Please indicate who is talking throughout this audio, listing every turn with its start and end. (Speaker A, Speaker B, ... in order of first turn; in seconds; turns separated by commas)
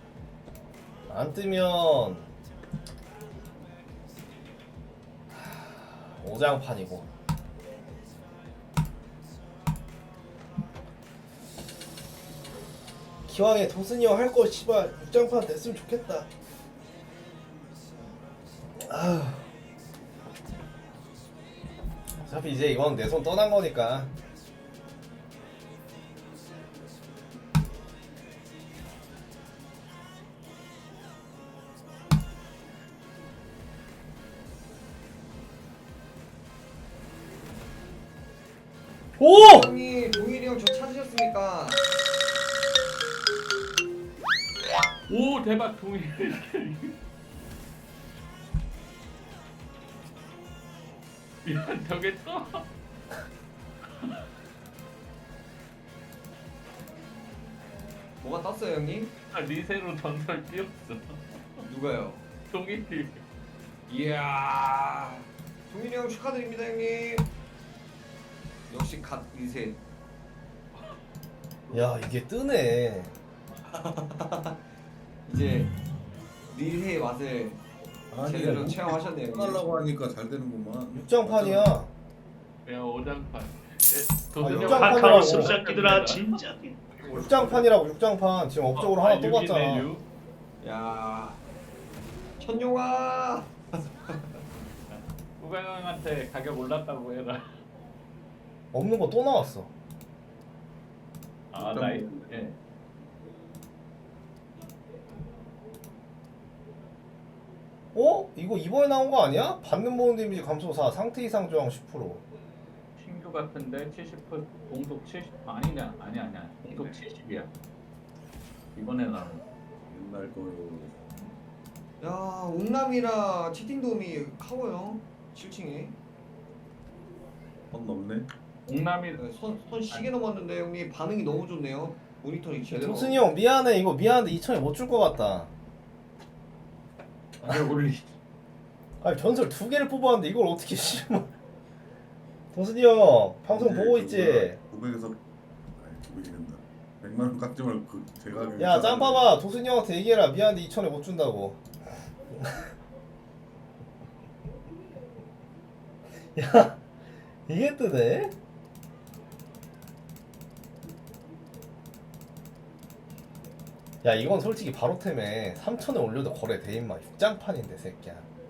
Speaker A: 1.1-2.3, Speaker A: 5.3-7.0, Speaker A: 13.3-16.3, Speaker A: 18.8-19.5, Speaker A: 22.2-24.1, Speaker A: 39.2-39.7, Speaker B: 39.3-41.8, Speaker C: 45.1-46.9, Speaker C: 51.4-52.6, Speaker B: 58.1-59.1, Speaker C: 59.3-61.2, Speaker B: 61.6-62.2, Speaker C: 62.5-63.2, Speaker B: 63.9-67.3, Speaker B: 68.7-69.8, Speaker A: 71.7-73.2, Speaker B: 73.7-74.6, Speaker B: 75.2-75.7, Speaker B: 76.5-77.6, Speaker D: 78.1-81.7, Speaker B: 78.2-79.7, Speaker A: 80.9-81.9, Speaker C: 82.7-86.3, Speaker A: 84.4-85.5, Speaker D: 84.5-84.8, Speaker E: 84.7-86.8, Speaker D: 87.0-87.8, Speaker A: 87.1-89.9, Speaker C: 88.8-90.0, Speaker B: 90.6-91.4, Speaker B: 92.4-93.5, Speaker B: 94.0-94.3, Speaker C: 94.9-97.4, Speaker A: 98.7-99.7, Speaker C: 101.5-102.6, Speaker D: 101.5-102.5, Speaker A: 107.9-112.2, Speaker C: 113.0-117.5, Speaker C: 118.8-119.4, Speaker D: 119.9-120.9, Speaker B: 122.0-126.0, Speaker D: 127.7-128.3, Speaker C: 128.7-129.2, Speaker B: 129.2-133.2, Speaker A: 132.7-135.5, Speaker C: 137.4-138.0, Speaker A: 139.0-141.3, Speaker A: 142.5-144.6, Speaker D: 143.5-145.2, Speaker D: 145.8-149.2, Speaker A: 148.6-151.6, Speaker A: 152.3-152.6, Speaker A: 156.3-156.8, Speaker A: 157.5-158.3, Speaker A: 164.0-168.3